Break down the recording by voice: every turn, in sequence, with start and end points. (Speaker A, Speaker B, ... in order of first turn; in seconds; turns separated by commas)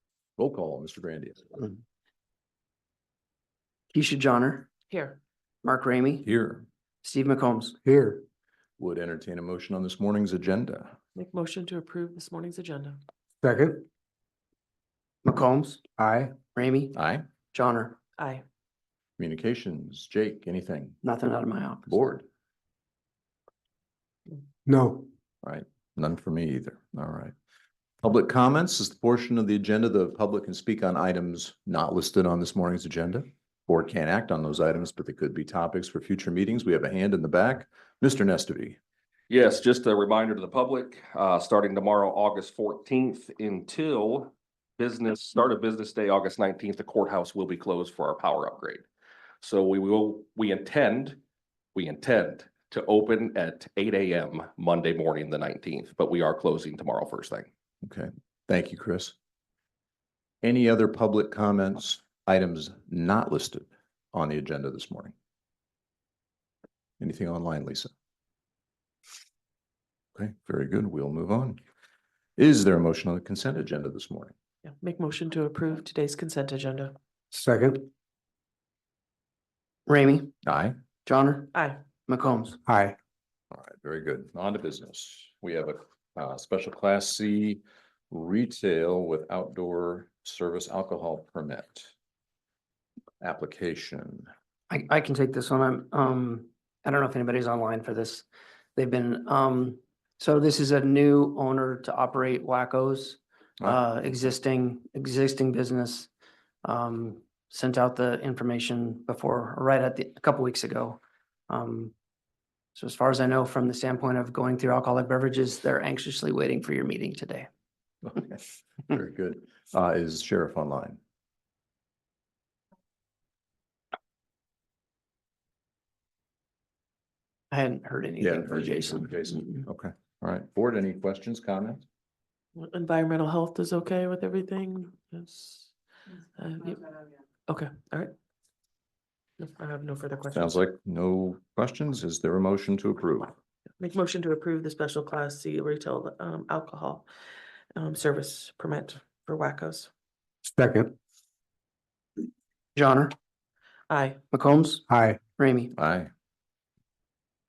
Speaker A: 0.4-1.7, Speaker B: 3.9-4.7, Speaker C: 4.9-5.2, Speaker B: 5.6-6.2, Speaker A: 6.2-6.7, Speaker B: 7.0-7.8, Speaker D: 7.8-8.2, Speaker A: 8.8-11.0, Speaker C: 11.1-13.0, Speaker D: 13.4-13.8, Speaker B: 15.2-15.8, Speaker D: 16.0-16.3, Speaker B: 16.5-17.0, Speaker A: 16.9-17.2, Speaker B: 17.5-18.0, Speaker C: 18.2-18.4, Speaker A: 19.2-21.0, Speaker B: 21.0-21.9, Speaker A: 21.9-22.2, Speaker D: 24.6-25.1, Speaker A: 25.4-27.3, Speaker A: 28.0-38.8, Speaker E: 39.3-48.8, Speaker E: 49.4-51.2, Speaker E: 51.7-57.5, Speaker A: 57.8-59.1, Speaker A: 60.4-65.1, Speaker A: 67.0-67.9, Speaker A: 70.1-71.6, Speaker A: 72.4-74.3, Speaker C: 74.6-76.9, Speaker D: 77.3-77.9, Speaker B: 79.9-80.3, Speaker A: 80.4-80.8, Speaker B: 81.0-81.5, Speaker C: 81.5-81.8, Speaker B: 82.1-82.6, Speaker D: 82.6-83.0, Speaker A: 83.5-91.9, Speaker A: 93.2-94.3, Speaker B: 94.7-98.2, Speaker B: 98.8-106.1, Speaker B: 106.6-111.9, Speaker B: 112.8-117.5, Speaker A: 118.0-121.0, Speaker B: 127.5-129.6, Speaker A: 128.2-131.8, Speaker C: 132.6-135.7, Speaker C: 136.3-136.9, Speaker C: 137.5-138.1, Speaker C: 139.4-140.6, Speaker A: 140.3-143.3, Speaker C: 143.8-147.1, Speaker C: 147.7-149.9, Speaker D: 150.5-150.9, Speaker B: 152.8-153.1, Speaker C: 153.9-154.2, Speaker B: 154.3-154.8, Speaker D: 154.9-155.2, Speaker B: 155.4-155.7, Speaker A: 155.8-156.1